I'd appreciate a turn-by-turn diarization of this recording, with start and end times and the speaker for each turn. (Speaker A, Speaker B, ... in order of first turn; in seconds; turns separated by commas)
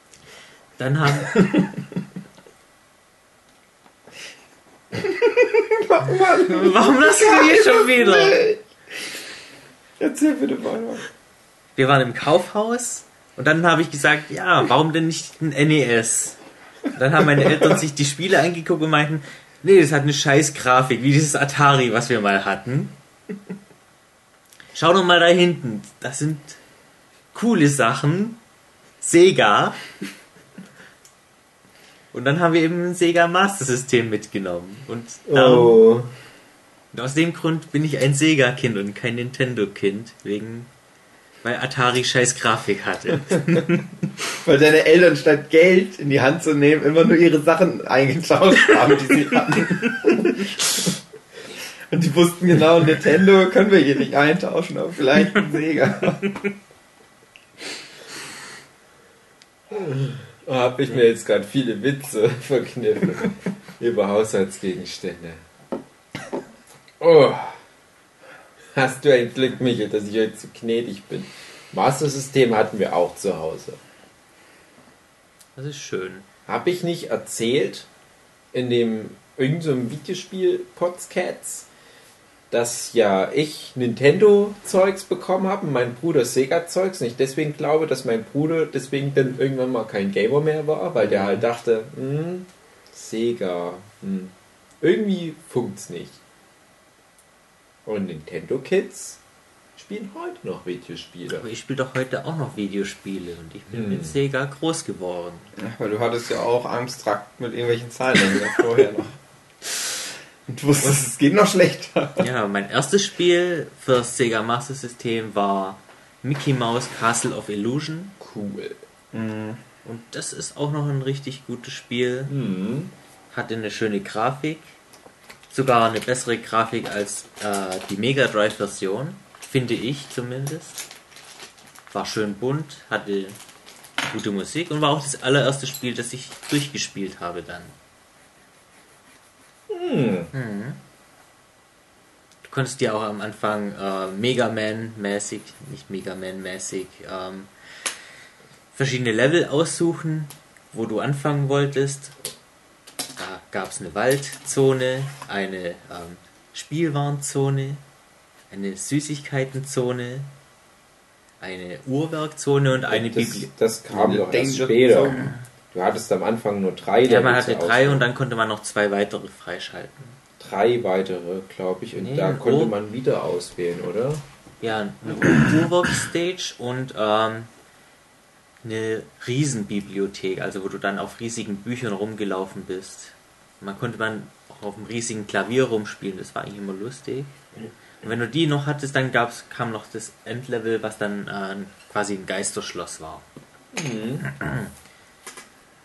Speaker A: 0.8-1.7, Speaker B: 5.0-8.5, Speaker A: 6.3-8.5, Speaker B: 10.0-11.1, Speaker A: 11.8-16.4, Speaker A: 16.9-22.9, Speaker A: 24.7-26.6, Speaker A: 27.3-28.4, Speaker A: 29.0-29.8, Speaker A: 32.1-35.9, Speaker C: 35.3-36.1, Speaker A: 36.9-40.7, Speaker A: 41.4-43.9, Speaker B: 44.3-50.9, Speaker B: 51.9-56.4, Speaker C: 59.7-65.4, Speaker C: 67.0-67.6, Speaker C: 68.7-73.8, Speaker A: 75.6-76.3, Speaker C: 76.5-77.9, Speaker C: 78.5-81.7, Speaker C: 82.5-96.2, Speaker A: 91.0-91.5, Speaker C: 97.9-99.2, Speaker C: 99.8-101.5, Speaker A: 101.3-105.5, Speaker C: 103.7-104.2, Speaker B: 105.6-112.3, Speaker A: 112.2-118.1, Speaker C: 118.2-118.8, Speaker B: 119.1-119.6, Speaker A: 119.8-122.3, Speaker C: 122.3-122.9, Speaker A: 123.3-124.8, Speaker A: 125.5-130.8, Speaker A: 131.9-133.4, Speaker A: 134.0-137.8, Speaker C: 139.7-140.3, Speaker A: 140.3-140.8, Speaker A: 142.4-147.9, Speaker A: 148.7-152.2, Speaker A: 153.2-157.8, Speaker A: 158.5-160.3, Speaker A: 161.4-163.5, Speaker C: 162.9-165.2, Speaker B: 163.9-165.3, Speaker A: 165.2-165.4, Speaker C: 165.7-168.1, Speaker A: 167.1-170.0, Speaker C: 170.4-174.2, Speaker A: 172.0-172.8, Speaker A: 174.6-177.5, Speaker A: 178.6-187.4, Speaker A: 188.0-193.2, Speaker C: 193.7-194.3, Speaker A: 194.4-194.7